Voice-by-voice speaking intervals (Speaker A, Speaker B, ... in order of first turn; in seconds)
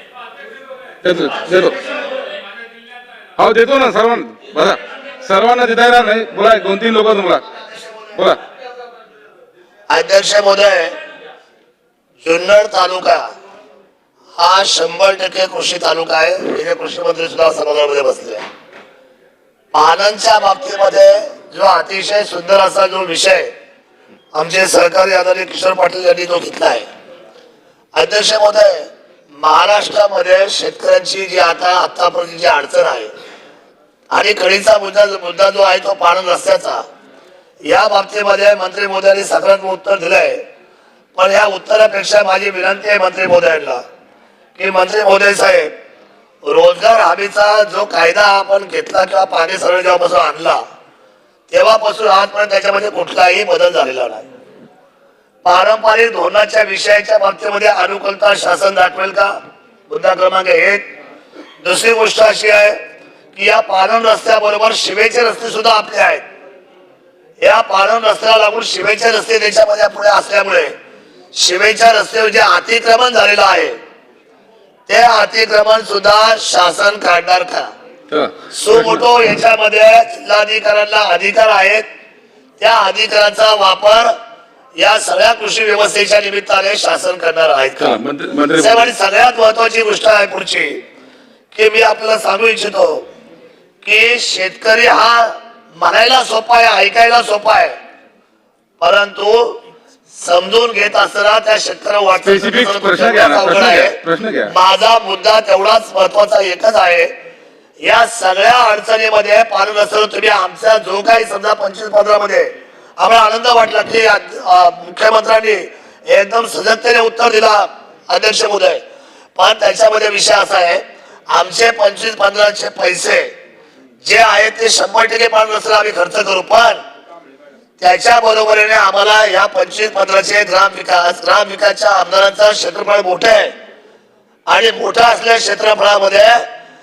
Speaker A: 1.0-1.8, 3.4-7.4, 8.1-8.4, 78.1-79.0, 87.8-88.9, 102.2-104.5
Speaker B: 9.9-11.0, 12.2-13.3, 14.4-18.4, 19.7-23.5, 24.3-26.9, 27.9-33.1, 34.1-36.8, 37.6-40.4, 41.1-43.8, 44.6-45.7, 46.4-50.6, 51.5-54.3, 55.4-59.4, 59.9-60.9, 61.6-62.8, 63.3-66.2, 67.4-70.7, 71.3-73.8, 74.9-77.7, 78.5-81.9, 82.6-84.1, 84.8-88.0, 88.5-90.8, 91.5-93.1, 93.8-97.8, 98.8-107.1, 107.8-118.8, 119.4-123.3, 124.0-126.8, 127.8-133.5, 134.5-136.5